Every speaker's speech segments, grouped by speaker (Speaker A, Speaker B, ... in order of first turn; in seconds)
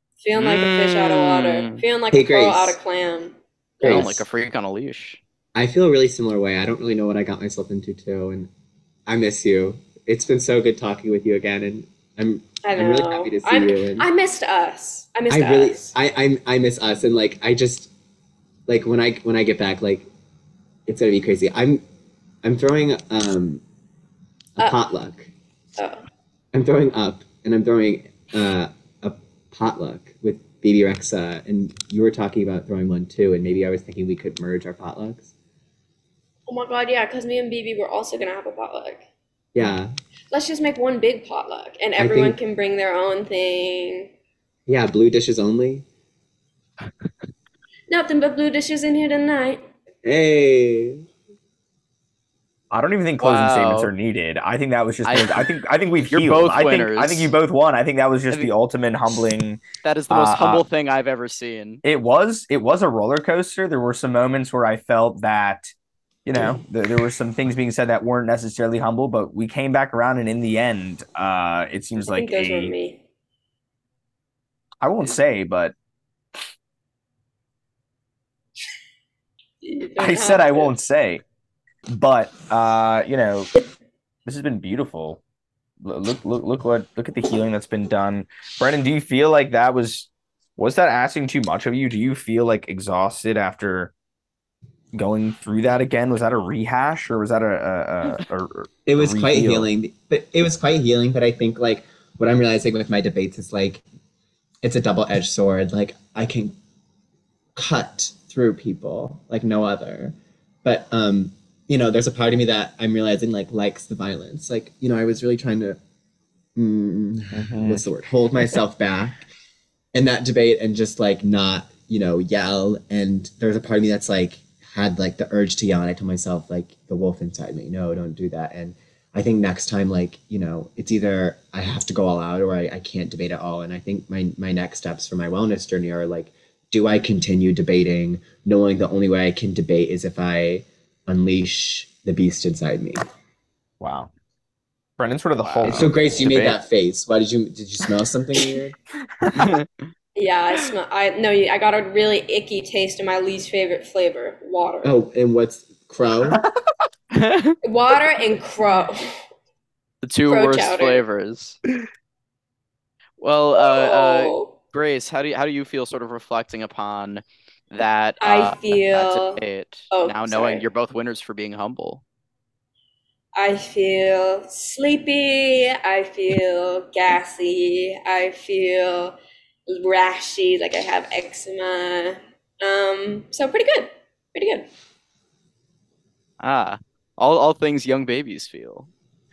Speaker A: 0.2-3.3, 12.6-15.9, 25.8-26.1, 36.5-39.0, 40.3-44.1, 47.9-49.7, 72.0-73.0, 79.6-80.7, 150.2-154.9, 157.6-159.2, 160.3-161.0, 163.6-164.5, 168.2-170.6, 173.4-184.7
Speaker B: 0.4-1.8, 3.8-5.2, 53.2-53.9, 55.0-55.4, 56.1-57.3, 59.8-61.8, 145.4-145.9, 149.3-149.7, 157.1-157.6, 160.0-161.6, 163.2-172.0, 186.4-188.9
Speaker C: 2.1-2.8, 3.8-4.2, 5.5-8.5, 9.1-14.1, 15.3-17.9, 18.7-20.1, 20.9-21.8, 22.4-23.6, 24.6-25.3, 26.5-35.3, 39.5-39.9, 42.0-42.4, 44.7-45.8, 50.0-51.0, 98.9-103.8, 104.6-106.5, 107.5-115.8, 116.5-119.2, 119.9-143.0, 145.6-148.8, 154.8-156.4
Speaker D: 52.7-60.6, 61.8-65.7, 66.3-72.7, 74.8-75.7, 80.0-81.2, 81.9-83.5, 84.3-85.2, 85.8-93.9, 94.9-99.7, 117.3-117.8, 143.8-144.1, 145.0-146.7, 149.2-149.6